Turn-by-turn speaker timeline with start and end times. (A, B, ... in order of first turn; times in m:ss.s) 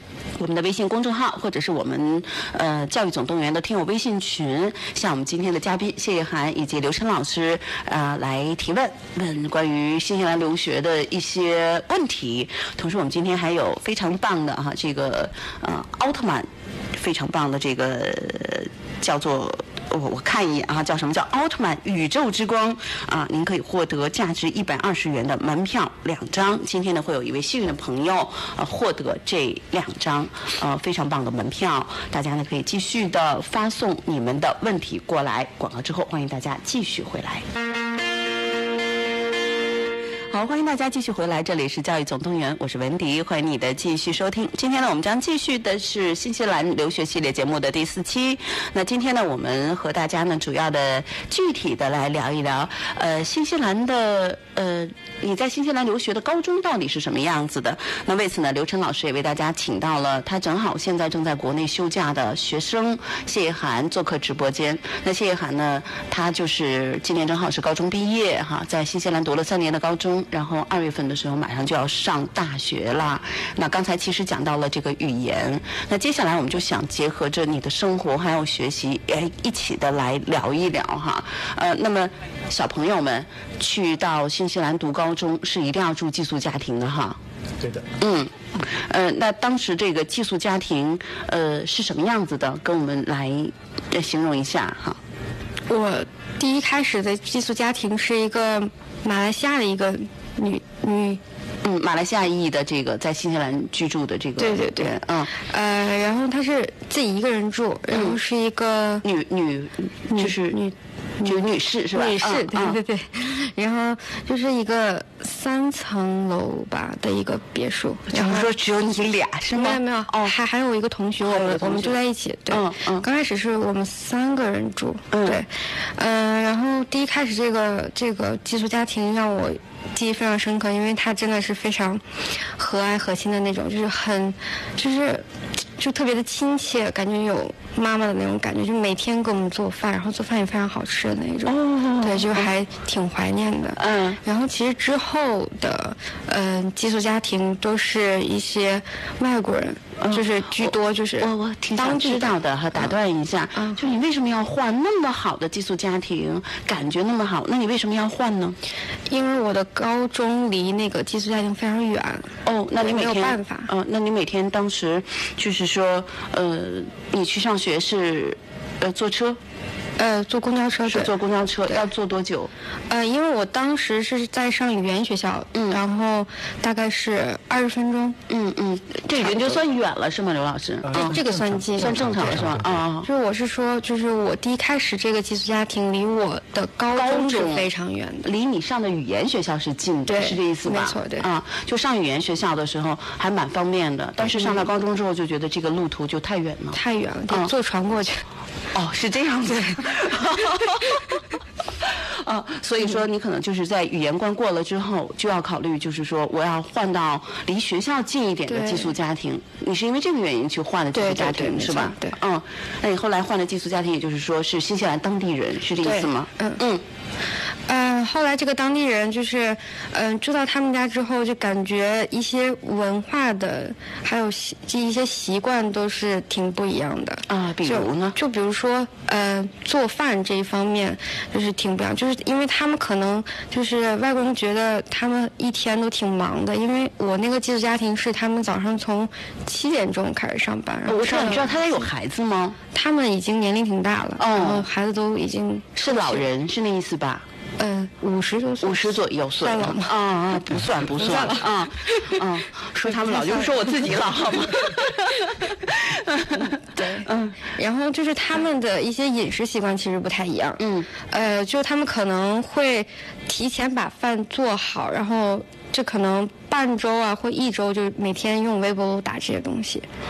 0:00.4-0:37.4 A
0:40.3-1:27.2 A
1:27.6-1:27.9 B
1:28.0-1:35.0 A
1:35.7-1:41.2 C
1:41.6-1:45.3 A
1:44.4-1:49.0 C
1:49.0-1:50.6 A
1:50.1-1:58.5 C
1:51.2-1:52.8 A
1:58.1-2:00.3 A
1:59.5-2:15.2 C
2:01.2-2:02.0 A
2:02.5-2:03.0 A
2:05.1-2:05.4 A
2:15.8-2:32.9 C
2:21.5-2:22.5 A
2:23.8-2:24.2 A
2:30.0-2:38.6 A
2:33.6-2:33.8 C
2:39.1-2:43.7 C
2:42.4-2:49.4 A
2:50.0-2:51.1 C
2:50.9-2:52.5 A
2:52.9-2:58.2 C
2:58.3-3:01.2 A
2:59.2-2:59.6 C
3:00.8-3:02.9 B
3:00.9-3:02.4 C
3:01.8-3:03.1 A
3:03.0-3:08.2 C
3:06.9-3:07.7 A
3:08.2-3:16.8 A
3:10.1-3:11.3 C
3:14.3-3:14.7 C
3:16.7-3:18.2 C
3:18.7-3:21.0 A
3:22.2-3:36.8 A
3:28.5-3:29.0 C
3:30.9-3:32.2 C
3:35.8-3:36.6 C
3:37.7-4:01.8 C
3:47.3-3:48.2 A
4:00.9-4:02.6 A
4:02.7-4:06.2 C
4:04.2-4:04.7 A
4:05.8-4:07.2 A
4:07.6-4:10.0 C
4:08.6-4:17.4 A
4:11.0-4:12.2 C
4:12.9-4:14.0 C
4:16.7-4:29.9 C
4:20.6-4:20.9 A